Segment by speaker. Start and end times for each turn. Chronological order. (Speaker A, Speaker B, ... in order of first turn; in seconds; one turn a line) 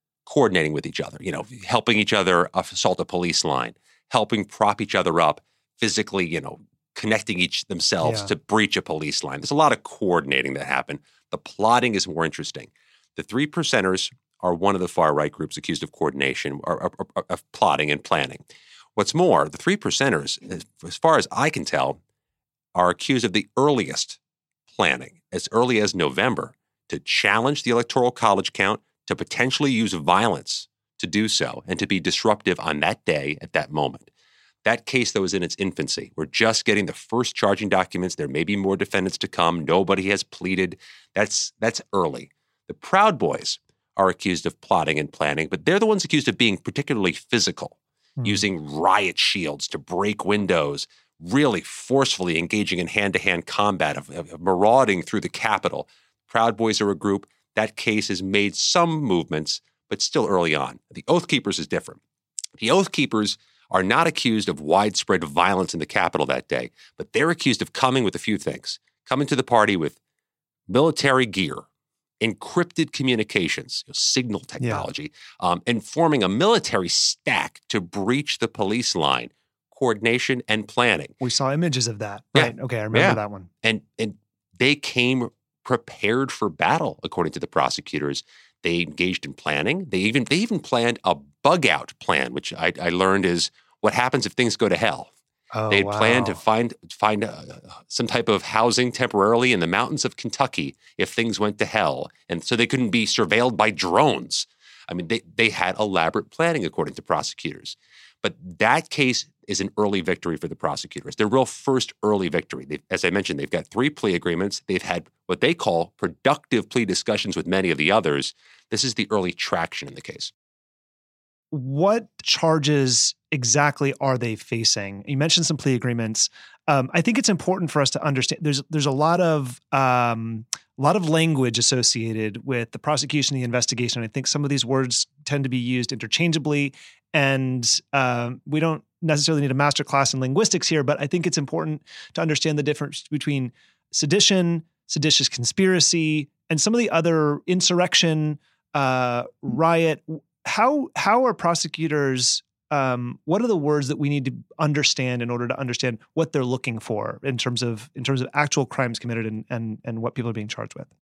Speaker A: 0.3-18.4
Speaker B: 8.0-8.3
Speaker A: 19.0-22.0
Speaker A: 22.8-24.2
Speaker A: 24.7-34.1
Speaker A: 34.6-62.0
Speaker B: 48.2-48.5
Speaker A: 62.6-70.0
Speaker A: 70.7-71.7
Speaker A: 72.2-81.2
Speaker B: 74.6-74.9
Speaker B: 81.2-83.5
Speaker A: 82.3-95.1
Speaker B: 95.5-96.4
Speaker A: 95.7-120.3
Speaker B: 121.5-160.9